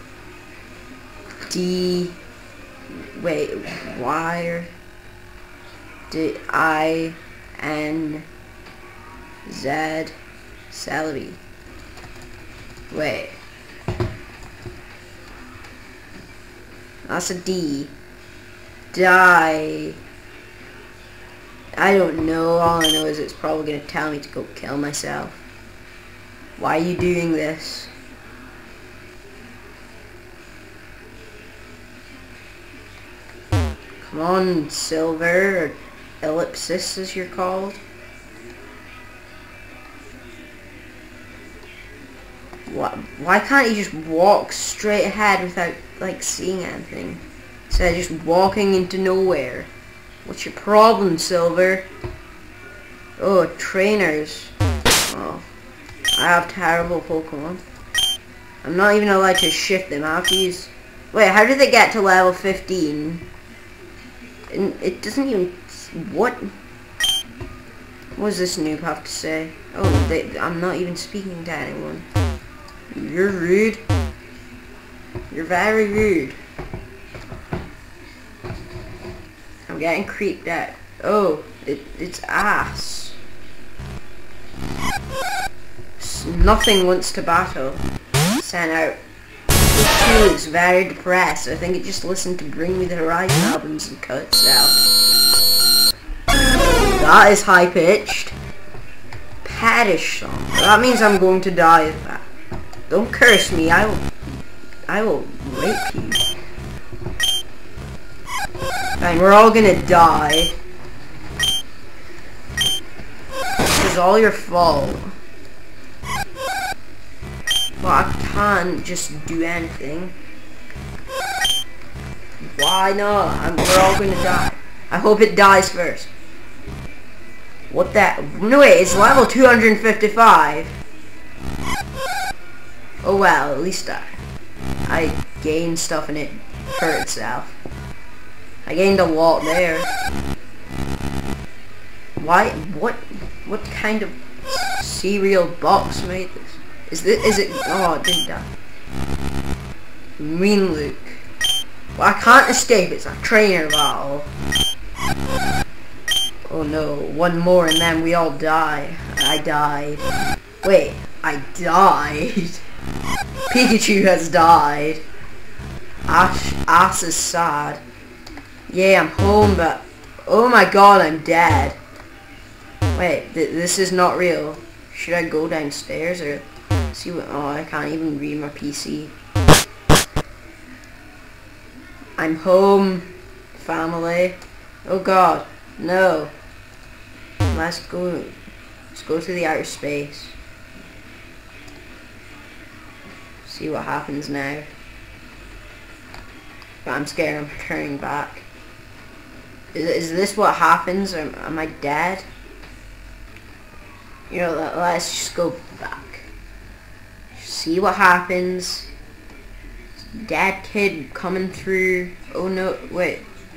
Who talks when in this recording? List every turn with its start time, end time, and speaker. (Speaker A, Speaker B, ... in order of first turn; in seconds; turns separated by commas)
Speaker A: 1.5-2.2, Speaker A: 2.9-4.7, Speaker A: 6.1-8.3, Speaker A: 9.5-10.2, Speaker A: 10.7-11.4, Speaker A: 12.9-13.4, Speaker A: 17.1-17.9, Speaker A: 18.9-20.0, Speaker A: 21.8-25.4, Speaker A: 26.6-27.9, Speaker A: 34.0-37.8, Speaker A: 42.7-49.7, Speaker A: 50.2-51.9, Speaker A: 53.2-54.5, Speaker A: 55.1-55.5, Speaker A: 56.1-57.6, Speaker A: 58.6-63.2, Speaker A: 64.5-66.5, Speaker A: 68.2-72.1, Speaker A: 72.9-73.8, Speaker A: 75.3-76.4, Speaker A: 79.7-83.2, Speaker A: 86.0-89.0, Speaker A: 89.7-94.8, Speaker A: 97.0-98.3, Speaker A: 99.4-102.3, Speaker A: 102.9-104.1, Speaker A: 104.9-106.2, Speaker A: 109.0-110.6, Speaker A: 113.6-115.2, Speaker A: 117.8-120.2, Speaker A: 122.4-126.1, Speaker A: 127.7-130.8, Speaker A: 133.0-134.1, Speaker A: 134.9-137.6, Speaker A: 138.7-139.9, Speaker A: 142.2-148.5, Speaker A: 150.2-151.2, Speaker A: 151.9-154.3, Speaker A: 156.5-160.1, Speaker A: 160.6-162.6, Speaker A: 163.5-165.0, Speaker A: 166.1-167.8, Speaker A: 168.7-171.8, Speaker A: 172.9-179.1, Speaker A: 182.2-186.3, Speaker A: 187.5-188.4, Speaker A: 188.9-190.4, Speaker A: 193.4-194.7, Speaker A: 196.8-198.5, Speaker A: 199.7-202.3, Speaker A: 204.3-206.3, Speaker A: 207.3-208.9, Speaker A: 210.0-213.2